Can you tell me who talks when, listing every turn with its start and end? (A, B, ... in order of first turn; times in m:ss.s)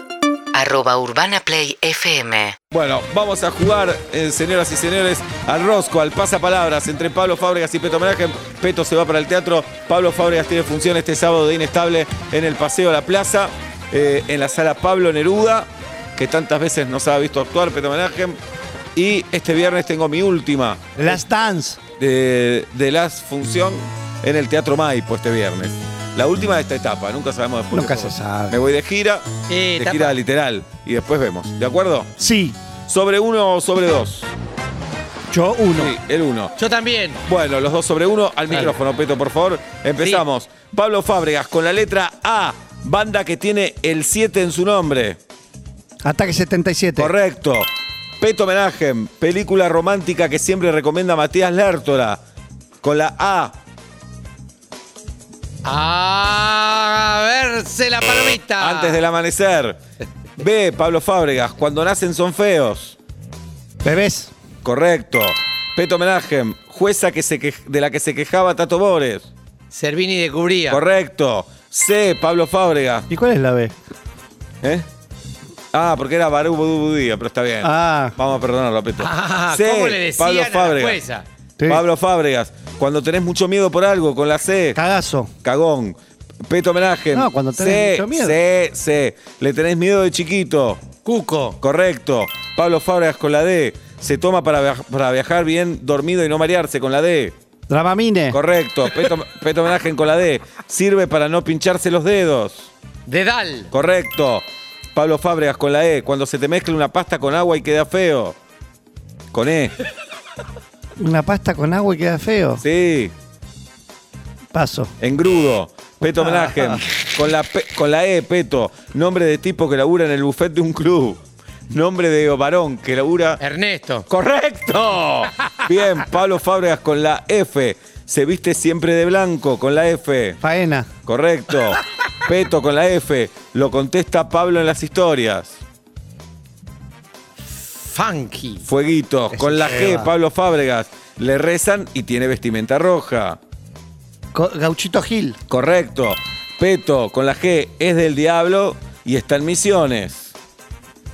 0:00.5-0:02.6 A
0:02.7-0:18.4 B
0:19.0-0:21.2 B
0:21.0-0:21.8 C
0:22.0-0:32.1 B
0:27.7-0:28.6 C
0:29.5-0:30.2 D
0:32.2-0:32.6 C
0:32.8-0:34.3 B
0:35.3-0:35.9 C
0:35.8-0:36.5 B
0:36.6-0:37.2 D
0:37.2-0:45.2 B
0:38.5-0:38.8 D
0:40.0-0:40.3 D
0:46.0-0:47.1 C
0:47.0-0:52.2 B
0:52.8-0:53.6 B
0:55.6-0:59.1 D
0:58.6-0:59.8 B
1:00.4-1:03.0 B
1:03.8-1:04.3 C
1:04.6-1:09.3 B
1:09.7-1:10.8 D
1:10.7-1:13.1 B
1:13.1-1:13.8 C
1:14.6-1:14.9 B
1:15.7-1:21.0 B
1:17.6-1:18.2 C
1:19.0-1:21.2 D
1:21.6-1:21.8 C
1:21.7-1:24.8 B
1:24.8-1:25.3 C
1:25.4-1:30.9 B
1:27.1-1:28.4 C
1:31.0-1:31.6 D
1:31.6-1:37.4 B
1:37.7-1:38.4 C
1:38.3-1:42.7 B
1:43.1-1:43.7 D
1:43.7-1:48.4 B
1:49.3-1:49.8 B
1:51.0-1:52.6 C
1:52.6-1:53.1 B
1:54.5-1:54.9 C
1:55.0-2:03.4 B
1:56.2-1:56.8 C
2:03.4-2:04.1 D
2:04.1-2:10.4 B
2:10.4-2:10.9 C
2:11.0-2:15.6 B
2:17.8-2:18.6 D
2:18.6-2:23.4 B
2:19.3-2:20.1 C
2:24.3-2:25.4 C
2:25.5-2:30.3 B